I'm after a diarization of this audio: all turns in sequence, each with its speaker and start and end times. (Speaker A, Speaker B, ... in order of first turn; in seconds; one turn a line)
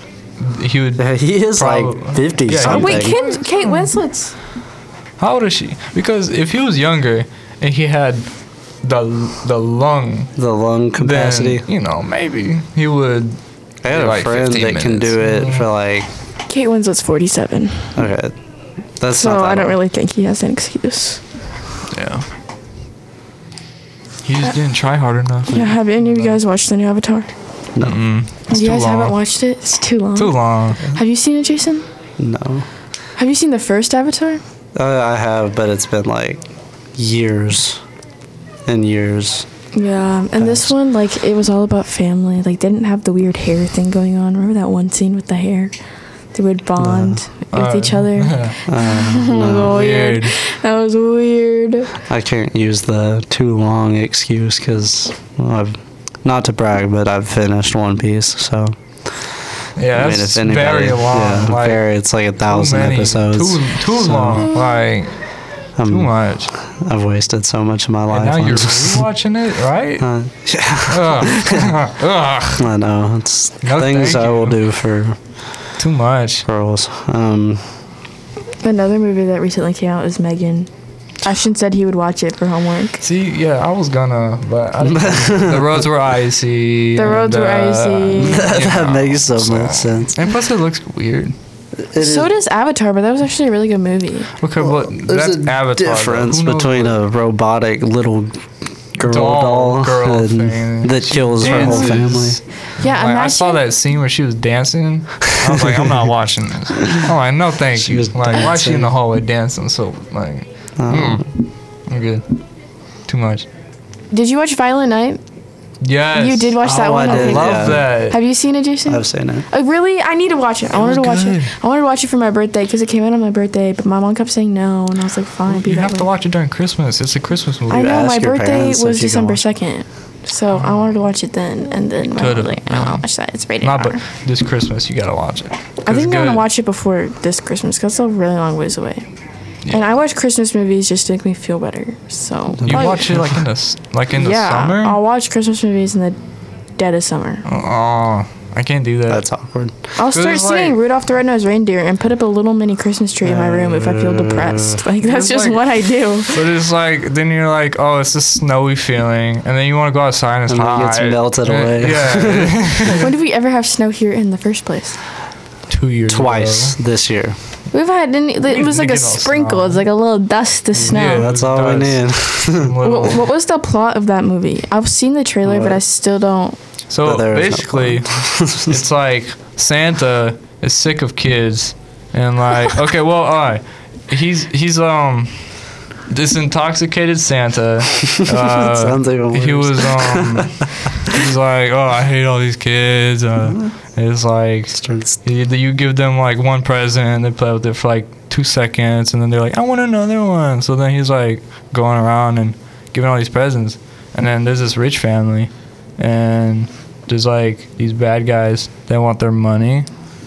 Speaker A: 0.4-3.9
Speaker B: 1.0-3.2
Speaker C: 2.6-4.3
Speaker A: 5.2-8.3
Speaker A: 8.8-10.3
Speaker B: 10.4-11.7
Speaker A: 11.0-15.7
Speaker B: 13.8-16.1
Speaker C: 16.5-17.9
Speaker B: 17.9-18.4
Speaker B: 19.0-19.8
Speaker C: 19.1-21.2
Speaker A: 21.9-22.3
Speaker A: 24.2-25.6
Speaker C: 25.5-27.3
Speaker A: 27.8-29.1
Speaker C: 28.5-31.9
Speaker A: 30.2-30.8
Speaker B: 32.2-32.7
Speaker C: 33.2-34.4
Speaker B: 34.8-37.8
Speaker B: 38.7-39.5
Speaker C: 39.7-45.7
Speaker B: 40.4-40.7
Speaker C: 46.3-52.0
Speaker B: 46.8-47.2
Speaker A: 47.5-48.6
Speaker B: 48.7-49.9
Speaker A: 49.7-50.3
Speaker B: 52.1-58.8
Speaker A: 59.8-61.9
Speaker B: 59.9-64.5
Speaker A: 62.5-65.2
Speaker B: 65.8-69.0
Speaker A: 65.9-66.5
Speaker A: 68.1-70.1
Speaker B: 70.0-71.7
Speaker A: 70.9-72.7
Speaker B: 72.6-75.2
Speaker A: 73.6-74.6
Speaker A: 75.8-76.5
Speaker B: 76.5-77.6
Speaker C: 78.6-80.7
Speaker C: 81.2-83.0
Speaker A: 83.0-91.3
Speaker B: 84.8-85.9
Speaker C: 87.0-88.5
Speaker B: 88.2-90.2
Speaker B: 91.9-92.3
Speaker C: 92.0-94.3
Speaker A: 94.4-97.0
Speaker B: 94.6-98.4
Speaker B: 99.0-102.4
Speaker A: 99.0-112.2
Speaker C: 101.4-101.8
Speaker C: 102.8-103.6
Speaker B: 105.5-105.8
Speaker B: 107.8-108.9
Speaker B: 110.8-111.3
Speaker A: 113.1-113.5
Speaker C: 114.1-115.2
Speaker A: 115.8-118.2
Speaker C: 116.2-126.1
Speaker B: 116.6-117.9
Speaker B: 118.9-119.5
Speaker A: 120.7-121.5
Speaker A: 125.5-127.9
Speaker B: 127.7-129.4
Speaker C: 127.7-134.0
Speaker A: 132.2-133.1
Speaker A: 133.6-136.4
Speaker C: 135.8-139.1
Speaker C: 139.7-143.1
Speaker B: 142.6-143.4
Speaker A: 142.7-145.0
Speaker C: 144.2-146.2
Speaker C: 146.8-147.4
Speaker A: 147.5-149.2
Speaker B: 149.1-149.7
Speaker C: 150.0-156.5
Speaker A: 150.1-150.8
Speaker B: 153.2-154.8
Speaker A: 155.0-155.7
Speaker A: 156.3-163.1
Speaker B: 160.5-163.0
Speaker C: 163.0-165.0
Speaker A: 165.7-166.8
Speaker B: 166.1-167.4
Speaker C: 167.7-171.3
Speaker A: 168.5-169.8
Speaker B: 170.7-172.8
Speaker A: 170.9-173.2
Speaker C: 172.8-176.6
Speaker B: 175.4-175.8
Speaker A: 176.9-209.9
Speaker B: 177.0-178.8
Speaker B: 188.2-190.7
Speaker B: 193.5-193.7
Speaker B: 194.7-195.2